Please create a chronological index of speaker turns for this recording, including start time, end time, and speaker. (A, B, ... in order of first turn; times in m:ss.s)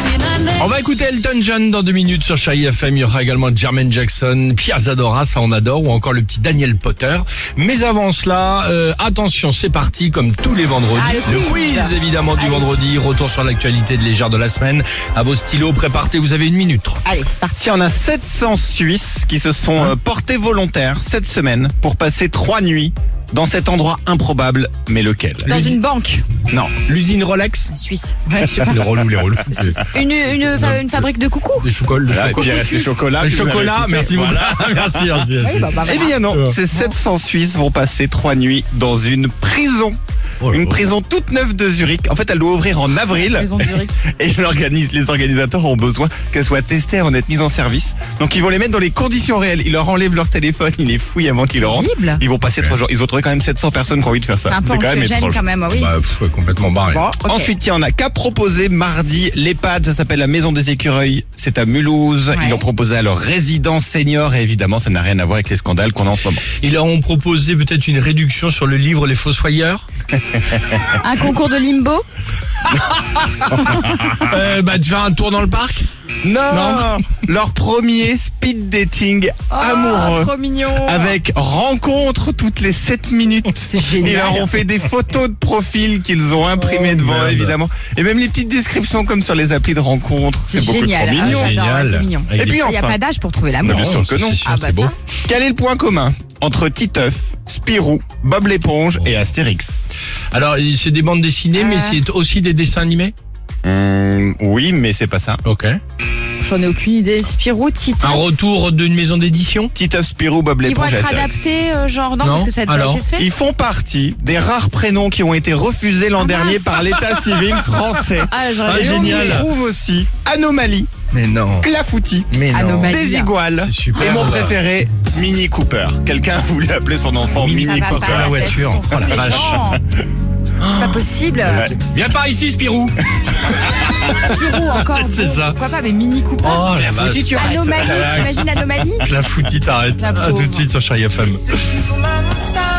0:00.6-0:17.0 A
0:11.0-0:12.8 B
0:17.0-0:17.6 B
0:17.6-0:25.5 C
0:25.4-0:25.8 A
0:25.4-0:26.3 B
0:26.5-0:26.8 C
0:26.8-0:27.7 A
0:27.7-0:28.8 B
0:28.3-0:31.1 A
0:29.5-0:31.7 B
0:31.6-0:35.7 A
0:32.1-0:35.2 C
0:32.3-0:32.8 B
0:35.4-0:36.9 B
0:35.8-0:40.0 C
0:36.3-0:36.6 A
0:40.4-0:40.8 A
0:40.5-0:55.4 C
0:43.1-0:44.0 B
0:51.5-0:52.2 B
0:52.5-0:52.8 A
0:54.5-0:55.9 B
0:55.7-0:57.0 A
0:56.9-0:57.5 B
0:56.9-1:06.4 C
1:02.3-1:02.7 B
1:06.6-1:09.8 A
1:11.0-1:12.0 B
1:12.7-1:15.9 A
1:13.6-1:14.1 B
1:16.2-1:31.5 C
1:16.5-1:17.1 A
1:19.5-1:21.2 B
1:23.7-1:24.5 B
1:26.5-1:27.6 A
1:30.5-1:35.0 B
1:31.2-1:32.8 A
1:32.4-1:33.0 C
1:33.6-1:34.9 A
1:33.6-1:34.4 C
1:35.3-1:39.9 C
1:39.0-1:39.3 A
1:40.3-1:43.1 A
1:41.6-1:42.0 B
1:43.6-1:45.4 C
1:45.4-1:45.8 A
1:46.4-1:48.3 B
1:48.0-1:49.7 A
1:49.8-1:51.3 C
1:50.6-1:53.3 B
1:52.2-1:53.0 A
1:53.1-2:00.9 C
1:56.2-1:56.8 B
1:56.9-1:59.5 A
1:58.3-1:59.5 B
2:01.1-2:01.7 A
2:01.6-2:09.2 C
2:02.3-2:03.0 A
2:02.5-2:03.3 B
2:03.6-2:04.6 A
2:04.0-2:04.4 B
2:07.3-2:09.7 A
2:07.6-2:09.8 B
2:10.6-2:15.6 A
2:10.6-2:11.7 B
2:11.5-2:11.8 C
2:14.0-2:16.7 B
2:16.4-2:18.4 A
2:16.7-2:18.3 C
2:17.3-2:19.1 B
2:19.0-2:21.8 A
2:20.0-2:20.7 B